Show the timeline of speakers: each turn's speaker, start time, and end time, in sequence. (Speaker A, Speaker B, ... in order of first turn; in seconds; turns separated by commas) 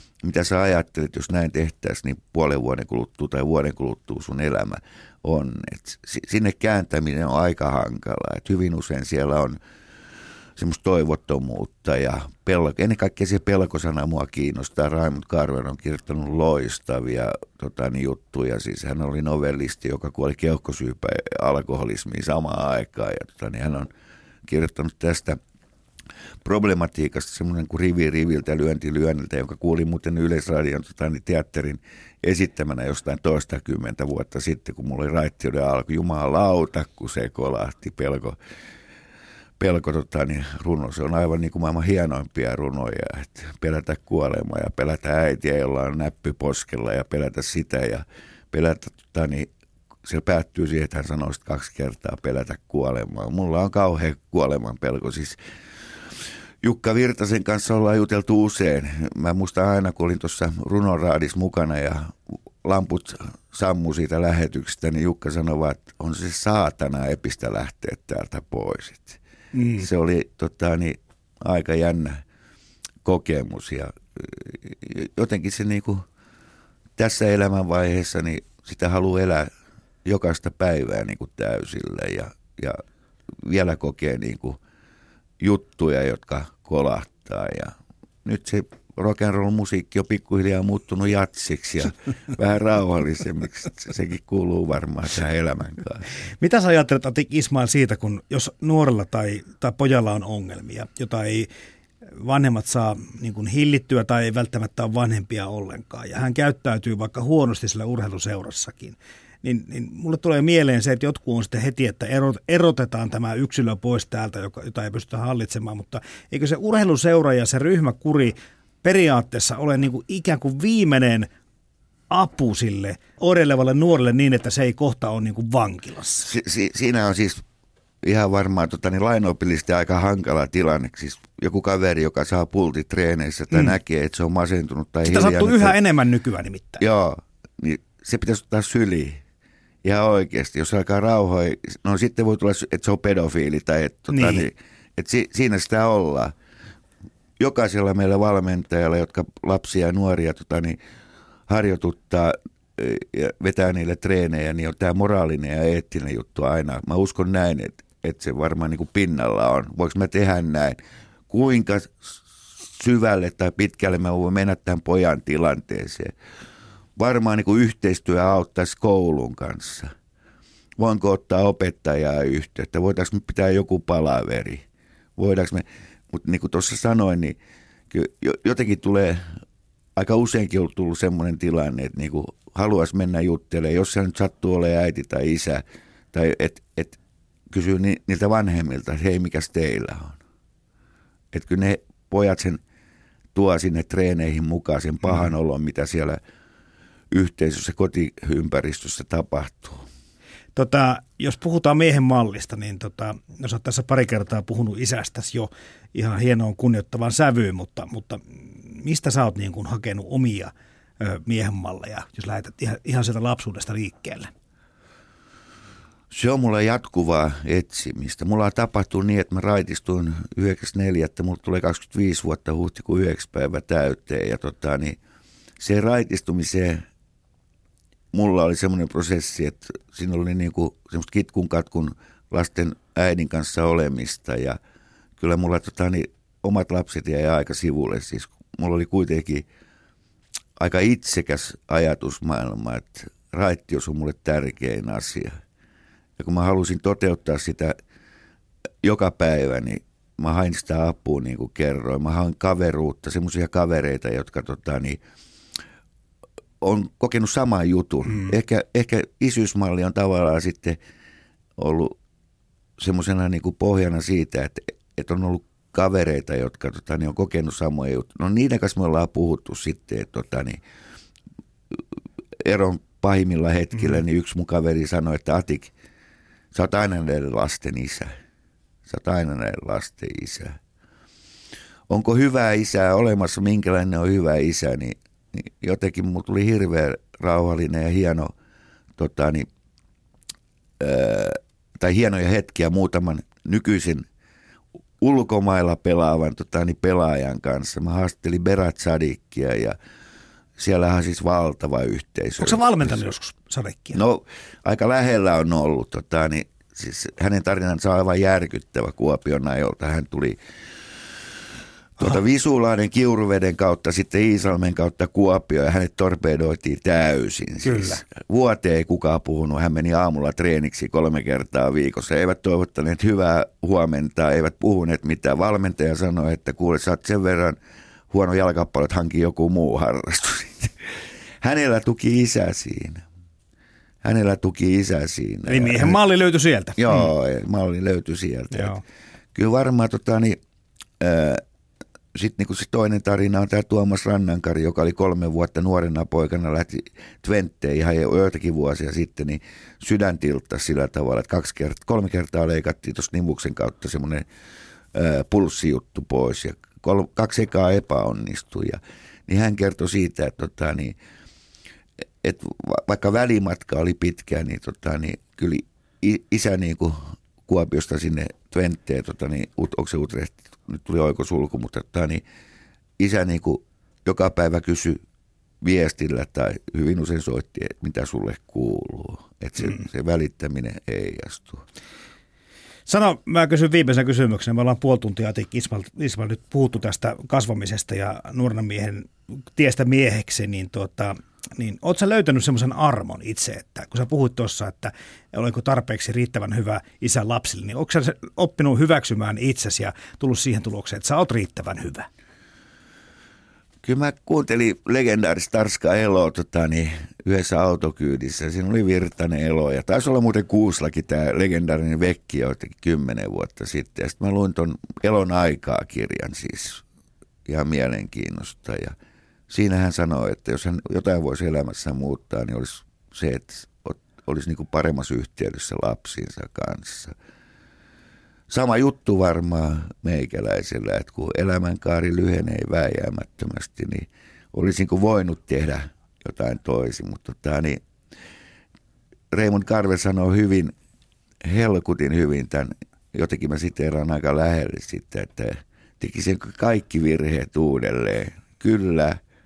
Speaker A: 0.2-9.6, Speaker A: 10.6-23.9, Speaker A: 24.5-25.4, Speaker A: 26.4-38.4, Speaker A: 39.6-49.5, Speaker A: 50.0-55.4, Speaker A: 56.6-69.2, Speaker B: 69.5-69.8, Speaker A: 69.8-72.2, Speaker A: 73.0-76.0, Speaker A: 77.0-79.5, Speaker A: 80.0-82.8, Speaker A: 83.4-84.6, Speaker A: 85.4-87.7, Speaker A: 88.2-96.0, Speaker B: 96.4-101.5, Speaker B: 102.2-121.3, Speaker B: 122.1-126.3, Speaker A: 126.2-127.4, Speaker A: 128.0-135.8, Speaker B: 135.0-136.8, Speaker A: 136.8-139.2, Speaker A: 139.8-146.3, Speaker B: 144.1-144.4, Speaker A: 147.4-150.8, Speaker A: 151.5-160.8, Speaker A: 161.3-166.1, Speaker A: 166.9-169.9, Speaker A: 170.8-174.6, Speaker A: 175.2-177.3, Speaker A: 177.9-179.3, Speaker A: 179.9-187.0, Speaker A: 187.5-190.2, Speaker A: 191.3-192.6, Speaker A: 193.3-196.2, Speaker A: 197.1-199.8, Speaker B: 200.6-214.3, Speaker A: 216.1-225.0, Speaker A: 225.6-226.8, Speaker A: 228.1-234.6, Speaker A: 235.2-239.4, Speaker A: 240.6-245.4, Speaker A: 246.2-247.8, Speaker A: 248.8-255.0, Speaker A: 256.6-260.8, Speaker A: 261.6-261.9, Speaker A: 262.8-270.6, Speaker A: 272.4-275.7, Speaker A: 276.5-278.1, Speaker A: 278.9-280.6, Speaker A: 281.9-288.3, Speaker A: 289.0-289.5, Speaker A: 290.8-294.1, Speaker A: 295.0-299.8, Speaker A: 300.6-303.1, Speaker B: 302.4-304.0, Speaker A: 303.9-310.4, Speaker A: 312.0-327.6, Speaker B: 317.7-318.0, Speaker A: 328.1-333.0, Speaker A: 334.0-336.0, Speaker B: 335.5-337.1, Speaker A: 336.8-338.8, Speaker B: 338.5-338.8, Speaker A: 339.3-340.4, Speaker A: 341.0-341.4, Speaker A: 342.1-354.2, Speaker A: 354.9-360.9, Speaker A: 362.2-372.2, Speaker A: 373.0-375.0, Speaker A: 375.6-381.6, Speaker B: 382.9-402.1, Speaker A: 403.8-416.8, Speaker A: 417.4-418.9, Speaker A: 419.5-427.1, Speaker A: 428.5-437.8, Speaker A: 439.3-440.7, Speaker A: 441.4-449.2